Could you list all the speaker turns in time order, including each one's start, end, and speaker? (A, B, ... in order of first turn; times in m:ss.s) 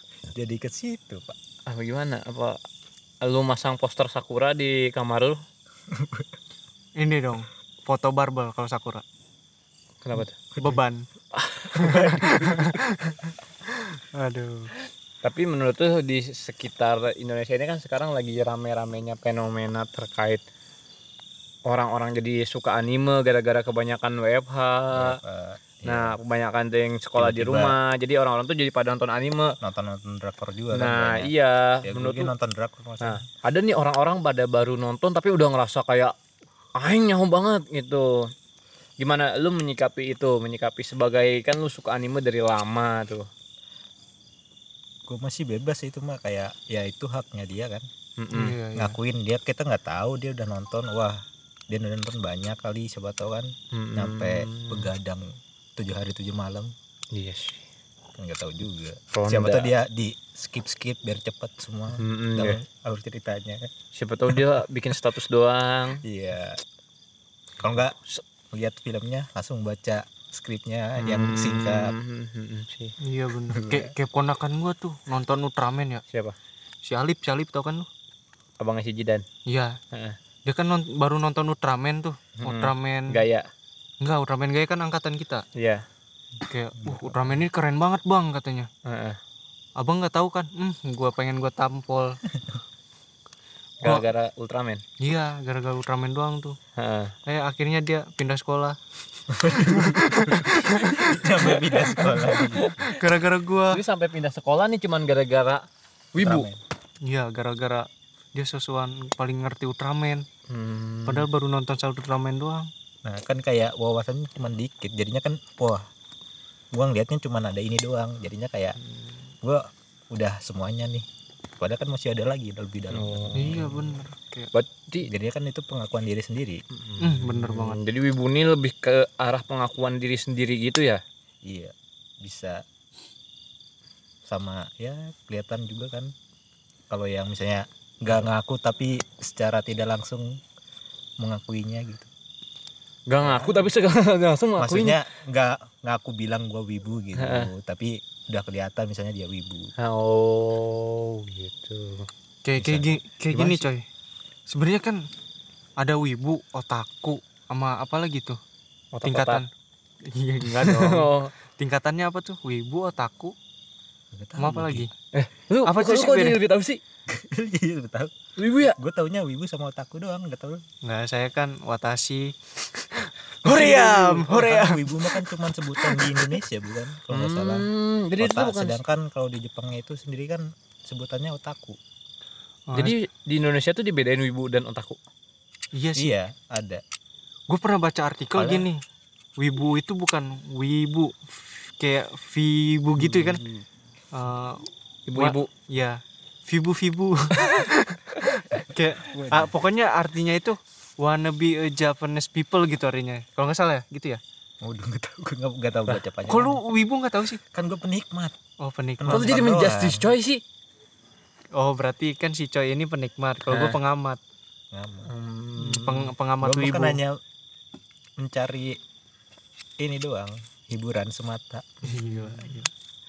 0:00.3-0:01.4 A
0:01.7-0:02.6 B
0:03.2-0:05.4 B
0:06.0-0:06.3 A
0:07.0-0:09.0 C
0:10.0-0:10.4 B
0:10.4-0:11.1 C
0:10.5-0:10.8 A
0:11.3-0:12.2 B
0:11.8-0:14.7 C
0:11.8-0:12.8 A
0:15.2-0:20.4 B
0:21.7-0:25.2 B
0:24.9-0:26.2 A
0:25.8-0:29.5 B
0:27.2-0:27.8 A
0:29.6-0:33.2 A
0:30.7-0:32.3 B
0:33.0-0:36.1 B
0:36.8-0:38.3 B
0:39.0-0:43.3 B
0:45.1-0:47.9 A
0:48.2-0:48.6 B
0:48.3-0:49.0 C
0:48.8-0:56.7 A
0:53.7-0:54.9 B
0:57.1-0:57.6 B
0:58.2-1:03.7 A
0:59.1-0:59.7 B
1:02.0-1:02.6 B
1:03.9-1:06.0 B
1:06.0-1:06.6 A
1:07.6-1:08.0 A
1:08.5-1:11.9 A
1:11.0-1:12.9 B
1:13.0-1:16.0 C
1:13.5-1:13.9 A
1:16.8-1:17.9 C
1:18.6-1:19.3 B
1:19.4-1:19.8 C
1:19.9-1:20.2 B
1:20.4-1:23.2 C
1:22.4-1:23.5 B
1:24.0-1:25.4 C
1:25.6-1:25.8 B
1:26.5-1:28.7 C
1:26.8-1:27.4 A
1:28.8-1:29.2 B
1:29.8-1:32.2 C
1:33.8-1:34.8 B
1:35.0-1:36.6 C
1:36.8-1:37.2 B
1:37.3-1:38.8 C
1:39.3-1:42.9 A
1:39.4-1:43.8 C
1:42.6-1:42.9 B
1:43.7-1:46.5 B
1:46.2-1:46.6 A
1:47.0-1:50.2 C
1:50.5-1:51.3 B
1:51.0-1:52.7 C
1:53.0-1:55.8 A
1:56.7-1:58.8 A
1:59.4-2:01.1 A
2:01.6-2:04.0 A
2:02.9-2:03.7 B
2:03.4-2:04.5 C
2:04.5-2:05.1 B
2:05.0-2:06.6 A
2:06.8-2:11.0 B
2:07.0-2:07.8 C
2:11.5-2:12.6 A
2:14.3-2:16.1 A
2:16.9-2:20.4 A
2:21.2-2:22.1 A
2:23.1-2:25.0 B
2:23.2-2:23.7 A
2:24.6-2:29.7 A
2:27.2-2:27.5 B
2:29.8-2:32.1 B
2:32.4-2:33.8 C
2:32.6-2:33.7 A
2:34.5-2:35.0 C
2:35.8-2:38.4 C
2:38.9-2:39.4 B
2:39.0-2:39.5 C
2:40.0-2:43.4 C
2:40.4-2:41.3 B
2:44.1-2:44.9 A
2:44.4-2:44.9 C
2:45.1-2:46.8 B
2:45.6-2:46.4 C
2:47.1-2:48.2 A
2:48.4-2:48.8 B
2:48.7-2:50.6 A
2:50.8-2:56.4 C
2:53.4-3:01.8 A
2:57.1-2:58.8 B
3:02.7-3:03.0 C
3:02.8-3:05.0 B
3:05.7-3:06.2 C
3:06.0-3:06.8 A
3:07.5-3:08.8 C
3:08.4-3:08.7 A
3:09.4-3:13.4 C
3:13.0-3:13.7 A
3:14.1-3:24.2 C
3:15.1-3:15.5 B
3:19.0-3:19.5 A
3:24.6-3:26.6 A
3:26.3-3:27.4 C
3:27.5-3:28.4 A
3:28.6-3:29.3 C
3:29.0-3:30.1 A
3:29.1-3:30.4 B
3:31.6-3:34.2 C
3:33.5-3:33.8 B
3:34.7-3:35.1 A
3:35.1-3:36.1 B
3:35.6-3:37.0 C
3:36.4-3:37.2 A
3:38.2-3:38.8 A
3:39.8-3:42.6 A
3:41.8-3:42.7 C